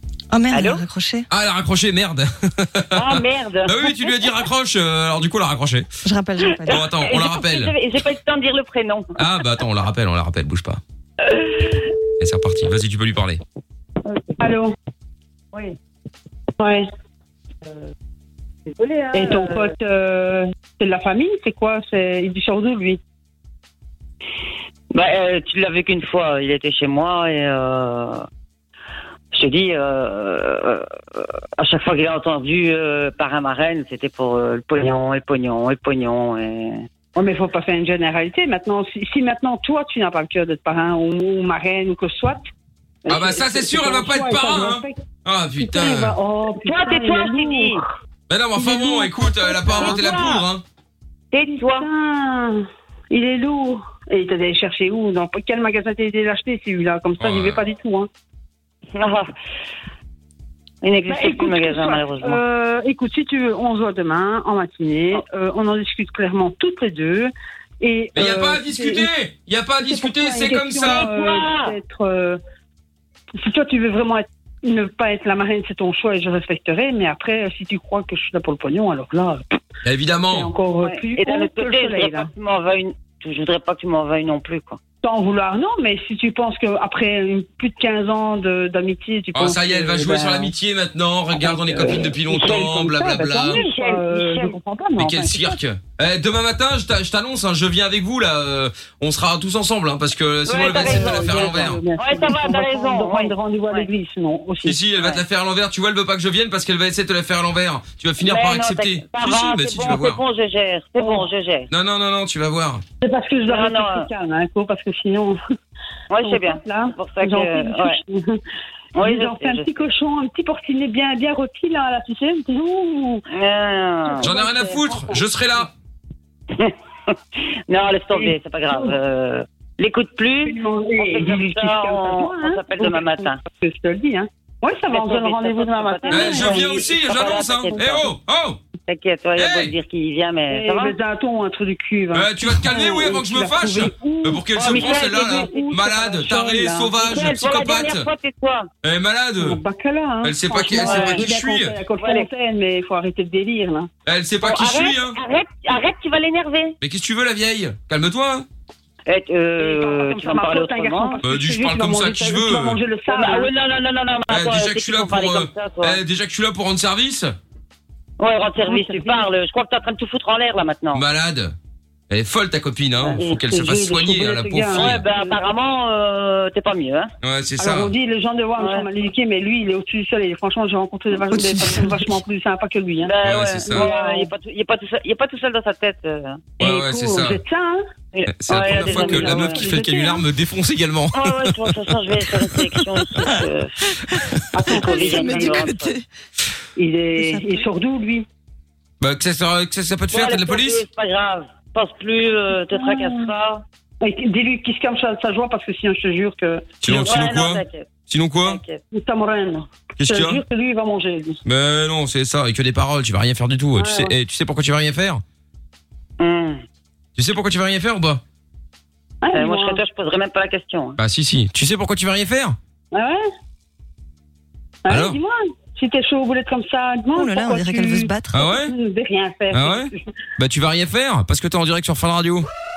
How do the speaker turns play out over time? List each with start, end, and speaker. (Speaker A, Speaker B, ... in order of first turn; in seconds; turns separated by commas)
Speaker A: 0.3-1.2, Speaker B: 0.5-0.8, Speaker C: 1.3-5.9, Speaker B: 2.9-4.4, Speaker A: 6.0-6.8, Speaker B: 6.6-9.2, Speaker C: 6.7-7.7, Speaker C: 9.2-10.8, Speaker B: 11.3-11.8, Speaker C: 12.2-13.4, Speaker B: 14.1-14.5, Speaker D: 14.4-14.7, Speaker D: 16.6-16.9, Speaker B: 18.8-19.7, Speaker D: 19.1-23.0, Speaker B: 24.9-28.2, Speaker B: 29.3-36.9, Speaker D: 37.1-42.4, Speaker D: 43.1-45.0, Speaker C: 43.1-46.2, Speaker D: 45.6-47.8, Speaker B: 46.6-47.8, Speaker C: 48.3-50.6, Speaker D: 48.6-50.2, Speaker B: 49.8-50.4, Speaker B: 51.3-51.9, Speaker D: 51.5-58.1, Speaker C: 57.2-57.6, Speaker B: 58.9-59.3, Speaker B: 60.8-62.4, Speaker D: 61.0-69.1, Speaker C: 68.1-71.1, Speaker D: 69.8-72.4, Speaker B: 70.8-71.7, Speaker D: 73.4-79.4, Speaker C: 79.8-80.5, Speaker D: 80.3-82.3, Speaker B: 80.8-84.8, Speaker D: 85.0-90.5, Speaker C: 89.3-93.6, Speaker D: 91.3-95.6, Speaker B: 93.5-94.6, Speaker C: 95.0-101.8, Speaker B: 100.5-103.9, Speaker D: 100.5-104.8, Speaker C: 104.6-110.2, Speaker B: 108.2-111.7, Speaker D: 111.0-111.3, Speaker C: 111.7-112.8, Speaker D: 113.0-115.4, Speaker B: 113.4-114.1, Speaker B: 116.1-118.0, Speaker D: 116.2-118.4, Speaker B: 119.0-119.7, Speaker D: 119.0-123.2, Speaker B: 123.3-124.3, Speaker D: 124.0-125.2, Speaker C: 124.2-125.7, Speaker B: 126.5-127.1, Speaker B: 127.7-133.4, Speaker D: 128.1-128.9, Speaker D: 130.4-136.9, Speaker B: 134.9-138.1, Speaker C: 136.1-138.6, Speaker B: 138.9-141.0, Speaker C: 139.4-139.7, Speaker D: 140.5-147.1, Speaker C: 142.1-148.1, Speaker B: 144.5-145.7, Speaker B: 147.0-148.7, Speaker C: 148.8-149.6, Speaker D: 149.4-153.9, Speaker C: 150.2-151.8, Speaker B: 150.6-151.2, Speaker B: 151.9-152.3, Speaker C: 154.1-155.2, Speaker B: 154.4-156.8, Speaker C: 156.8-158.4, Speaker B: 159.1-161.2, Speaker D: 159.6-163.5, Speaker C: 161.2-162.8, Speaker B: 163.1-166.0, Speaker C: 164.3-167.3, Speaker B: 168.2-171.0, Speaker D: 168.6-169.3, Speaker C: 170.9-171.5, Speaker C: 172.1-175.0, Speaker D: 173.0-175.4, Speaker B: 174.7-177.1, Speaker C: 177.2-177.9, Speaker D: 177.6-183.1, Speaker B: 178.6-178.8, Speaker A: 181.3-182.2, Speaker B: 183.0-186.5, Speaker C: 183.2-183.9, Speaker D: 183.7-184.3, Speaker D: 186.6-187.8, Speaker C: 186.6-187.4, Speaker B: 188.1-189.8, Speaker C: 188.4-191.7, Speaker D: 188.5-190.2, Speaker B: 191.1-193.9, Speaker D: 194.5-195.6, Speaker B: 194.6-195.9, Speaker A: 194.7-196.0, Speaker D: 196.8-198.3, Speaker A: 197.2-197.6, Speaker C: 199.0-200.8, Speaker B: 200.1-203.6, Speaker D: 202.7-203.3, Speaker D: 204.0-206.8, Speaker C: 206.8-208.6, Speaker B: 206.8-207.9, Speaker B: 208.4-208.8, Speaker D: 208.9-211.4, Speaker C: 210.0-210.4, Speaker C: 211.4-215.2, Speaker D: 213.8-214.1, Speaker B: 216.2-216.6, Speaker C: 217.2-218.2, Speaker D: 219.2-219.8, Speaker B: 219.3-221.0, Speaker C: 221.0-222.6, Speaker D: 222.9-223.2, Speaker D: 224.8-230.0, Speaker C: 224.9-225.2, Speaker A: 227.1-228.4, Speaker C: 228.3-228.7, Speaker C: 229.5-232.5